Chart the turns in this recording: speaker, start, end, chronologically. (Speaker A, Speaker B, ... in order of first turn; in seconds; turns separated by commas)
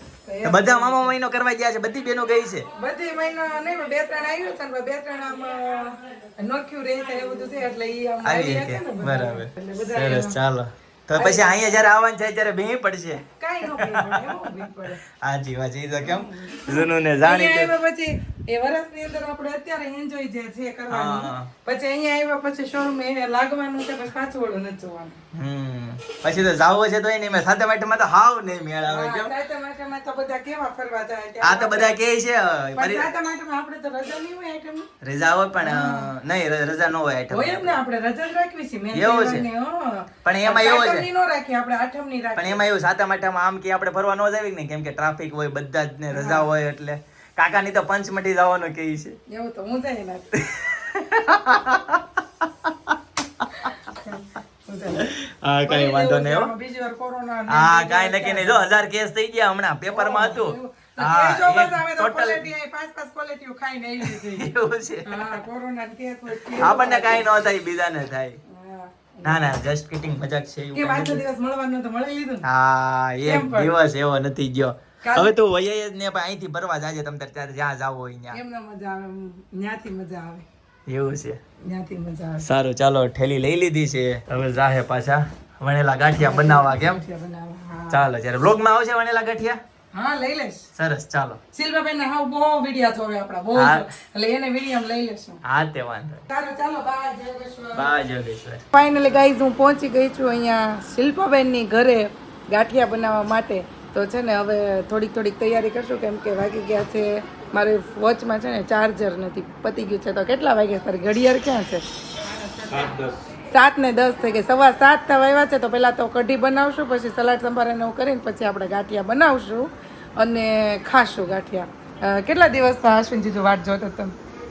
Speaker A: 0.3-1.1, Speaker B: 0.4-2.7, Speaker A: 2.8-10.4, Speaker B: 8.2-14.2, Speaker A: 11.2-11.6, Speaker A: 13.4-15.0, Speaker B: 15.2-17.7, Speaker A: 16.0-25.2, Speaker B: 20.9-21.5, Speaker B: 25.3-29.3, Speaker A: 28.9-31.9, Speaker B: 31.4-33.1, Speaker A: 32.8-34.9, Speaker B: 35.0-37.8, Speaker A: 35.6-36.1, Speaker A: 37.3-42.6, Speaker B: 38.9-39.5, Speaker B: 40.2-41.1, Speaker B: 42.4-49.2, Speaker A: 46.1-46.5, Speaker A: 49.3-50.3, Speaker B: 50.5-52.0, Speaker B: 52.7-53.7, Speaker A: 54.0-55.1, Speaker B: 55.0-56.5, Speaker A: 55.7-58.7, Speaker B: 57.5-62.5, Speaker A: 59.9-64.5, Speaker B: 64.0-65.4, Speaker A: 65.1-67.3, Speaker B: 66.6-68.4, Speaker A: 68.5-69.6, Speaker B: 69.2-71.2, Speaker A: 70.7-72.5, Speaker B: 72.4-78.4, Speaker A: 73.2-73.7, Speaker A: 75.0-75.3, Speaker A: 78.3-80.5, Speaker B: 80.9-81.4, Speaker A: 81.7-82.5, Speaker B: 82.4-87.0, Speaker A: 86.2-88.0, Speaker B: 87.9-89.6, Speaker A: 89.9-90.7, Speaker B: 90.8-91.4, Speaker A: 91.5-95.4, Speaker B: 93.5-93.8, Speaker B: 95.4-96.2, Speaker A: 96.3-97.9, Speaker B: 97.7-98.6, Speaker A: 98.7-111.8, Speaker B: 112.7-113.1, Speaker A: 113.5-124.2